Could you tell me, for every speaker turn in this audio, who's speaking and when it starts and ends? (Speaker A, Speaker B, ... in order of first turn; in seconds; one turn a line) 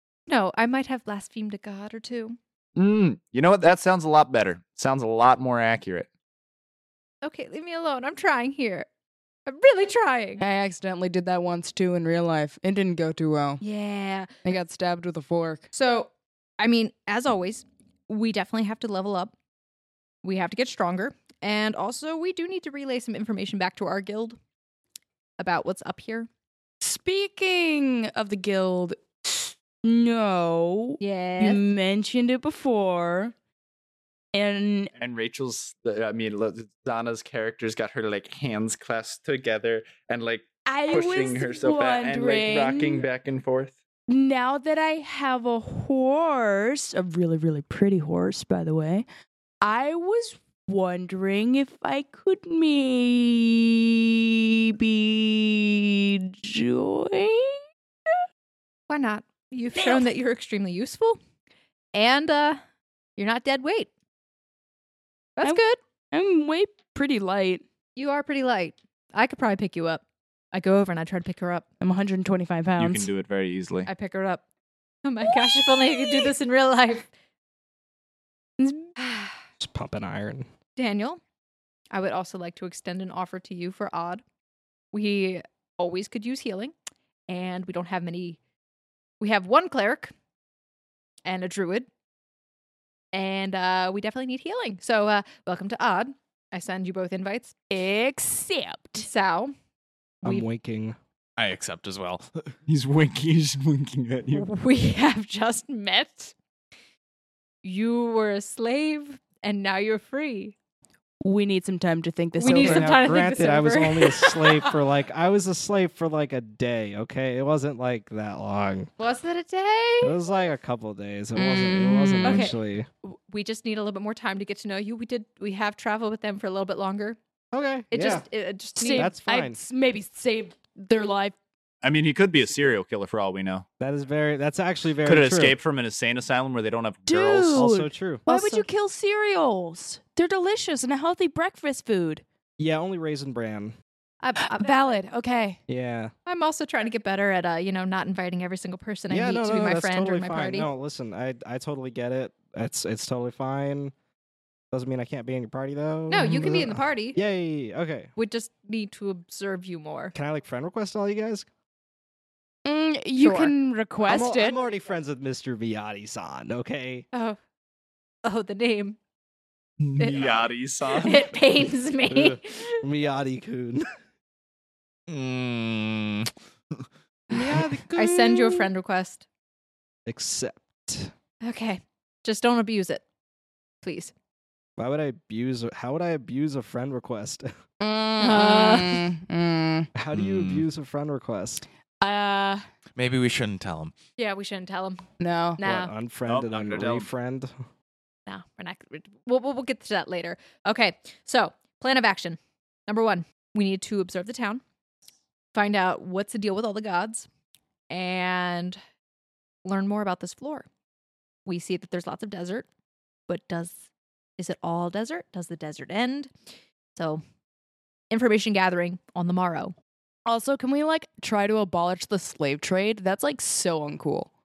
Speaker A: 0.3-2.4
Speaker B: 2.8-6.1
Speaker A: 7.2-8.9
Speaker A: 9.5-10.4
Speaker C: 10.4-13.6
Speaker A: 13.6-14.3
Speaker C: 14.4-15.7
Speaker A: 15.7-19.3
Speaker A: 20.2-24.4
Speaker A: 25.4-26.3
Speaker C: 26.8-33.3
Speaker A: 31.0-31.6
Speaker C: 34.3-34.9
Speaker B: 35.0-43.8
Speaker C: 40.7-43.0
Speaker C: 44.1-49.1
Speaker C: 49.6-58.2
Speaker A: 58.9-61.2
Speaker C: 59.8-60.1
Speaker A: 61.9-62.6
Speaker A: 63.2-63.9
Speaker A: 65.4-65.8
Speaker C: 66.1-67.6
Speaker A: 68.0-71.7
Speaker C: 71.8-73.1
Speaker B: 72.8-73.9
Speaker A: 73.9-74.4
Speaker A: 75.0-77.1
Speaker C: 78.6-78.9
Speaker A: 79.0-79.4
Speaker D: 79.6-80.5
Speaker A: 80.8-81.2
Speaker A: 81.9-84.2
Speaker A: 84.9-86.7
Speaker A: 87.3-88.4
Speaker A: 89.2-90.1
Speaker A: 91.2-91.9
Speaker A: 93.1-97.5
Speaker C: 97.7-99.1
Speaker A: 99.0-99.5
Speaker D: 100.2-101.0
Speaker E: 101.4-102.5
Speaker B: 102.7-104.5
Speaker A: 104.3-106.3
Speaker A: 107.6-110.6
Speaker C: 111.2-112.9
Speaker A: 112.4-114.7
Speaker D: 112.4-118.9
Speaker A: 119.0-120.1
Speaker D: 120.0-122.9
Speaker C: 121.4-122.5
Speaker A: 122.2-127.2
Speaker D: 127.5-128.2
Speaker A: 127.9-129.1
Speaker C: 128.8-131.3
Speaker D: 128.9-129.6
Speaker B: 131.8-133.7
Speaker D: 133.8-135.6
Speaker B: 135.0-137.7
Speaker C: 137.1-142.2
Speaker D: 137.6-138.3
Speaker A: 138.3-138.7
Speaker D: 142.6-143.8
Speaker A: 144.2-144.7
Speaker C: 144.4-145.6
Speaker D: 145.7-146.1
Speaker A: 146.3-150.7
Speaker D: 149.1-153.9
Speaker D: 154.7-158.1
Speaker A: 156.1-157.2
Speaker A: 158.2-160.1
Speaker D: 160.1-161.5
Speaker C: 162.7-164.6
Speaker A: 163.2-163.5
Speaker D: 164.1-167.1
Speaker A: 168.2-169.0
Speaker B: 169.8-171.3
Speaker A: 170.0-170.3
Speaker A: 170.9-172.8
Speaker D: 172.2-173.9
Speaker E: 175.1-176.3
Speaker D: 177.3-178.7
Speaker A: 177.3-179.2
Speaker D: 180.1-181.1
Speaker A: 181.4-183.0
Speaker A: 183.8-184.1
Speaker D: 184.8-187.5
Speaker C: 187.8-189.9
Speaker A: 188.2-189.1
Speaker D: 189.9-191.6
Speaker E: 190.1-190.7
Speaker C: 192.1-192.6
Speaker E: 193.0-193.9
Speaker A: 194.2-195.1
Speaker C: 195.2-195.6
Speaker A: 195.6-195.9
Speaker D: 195.6-197.6
Speaker B: 196.3-197.1
Speaker A: 198.3-204.6
Speaker A: 205.5-207.3
Speaker A: 207.9-208.8
Speaker A: 209.7-210.7
Speaker A: 211.5-212.7
Speaker A: 213.3-213.8
Speaker A: 214.4-216.3
Speaker A: 217.0-217.2
Speaker A: 218.1-219.8
Speaker C: 220.3-224.3